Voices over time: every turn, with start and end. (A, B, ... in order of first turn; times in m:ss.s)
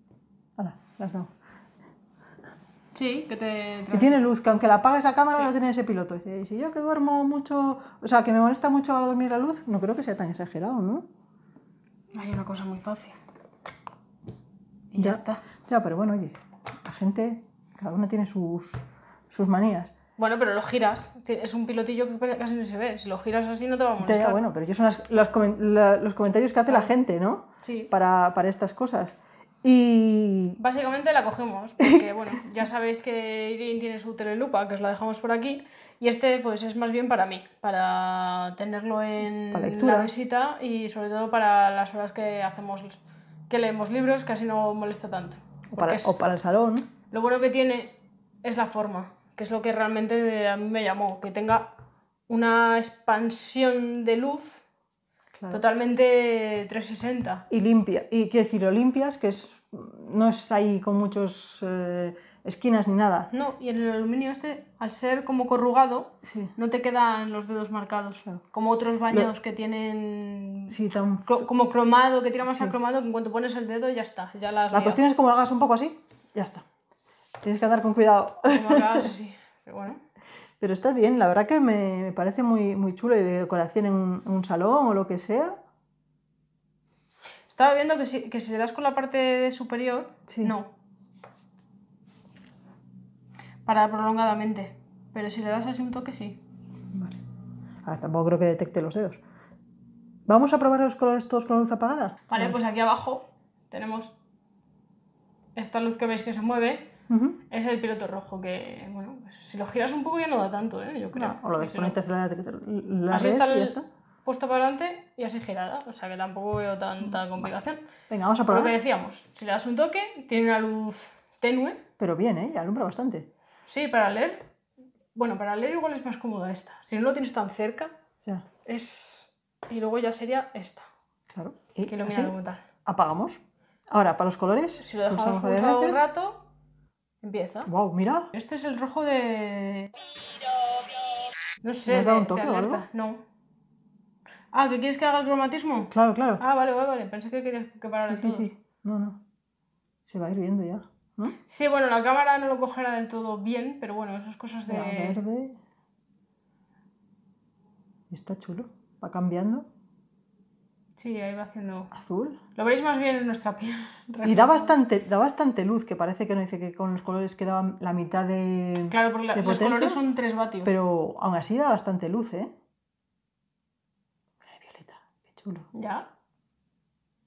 0:00.6-0:01.3 A
0:02.9-0:04.3 B
0:03.9-0:11.0 A
0:12.1-0:13.2 B
0:14.9-0:15.4 B
0:15.0-0:19.9 A
0:20.2-0:24.4 B
0:24.0-0:30.6 A
0:27.6-0:27.9 B
0:30.6-0:43.0 B
0:39.5-0:40.1 A
0:43.5-0:46.1 B
0:45.7-0:46.9 A
0:47.1-0:51.7 B
0:52.3-0:54.6 B
0:55.4-0:55.6 A
0:55.5-0:57.4 B
0:57.5-1:03.3 A
1:03.3-1:15.0 B
1:06.2-1:06.5 A
1:10.7-1:11.4 A
1:12.4-1:12.7 A
1:14.7-1:16.6 A
1:17.4-1:19.1 A
1:18.5-1:20.0 B
1:20.6-1:25.6 A
1:27.5-1:30.7 B
1:30.3-1:30.6 A
1:33.6-1:36.4 B
1:36.9-1:37.2 A
1:37.8-1:39.2 A
1:40.3-1:42.6 A
1:42.3-1:44.1 B
1:45.6-1:46.9 B
1:47.1-1:47.4 A
1:47.5-1:52.0 B
1:51.1-1:53.8 A
1:53.1-1:57.8 B
1:58.1-1:58.8 A
1:58.5-2:01.8 B
2:02.0-2:03.3 A
2:03.7-2:04.4 B
2:05.1-2:07.9 B
2:08.6-2:10.8 B
2:11.3-2:12.3 A
2:11.9-2:12.6 B
2:12.8-2:13.4 A
2:13.9-2:16.1 A
2:14.8-2:16.4 B
2:17.2-2:17.7 B
2:17.6-2:18.3 A
2:18.3-2:19.9 B
2:21.6-2:23.2 B
2:21.9-2:22.8 A
2:24.5-2:28.5 B
2:25.9-2:26.4 A
2:28.0-2:29.2 A
2:30.1-2:31.4 A
2:31.4-2:35.2 B
2:34.7-2:35.6 A
2:38.1-2:39.6 A
2:41.0-2:41.9 B
2:41.9-2:42.4 A
2:42.5-2:44.8 B
2:44.2-2:50.0 A
2:48.9-2:50.7 B
2:50.6-2:52.5 A
2:54.4-2:55.7 A
2:55.7-2:56.0 B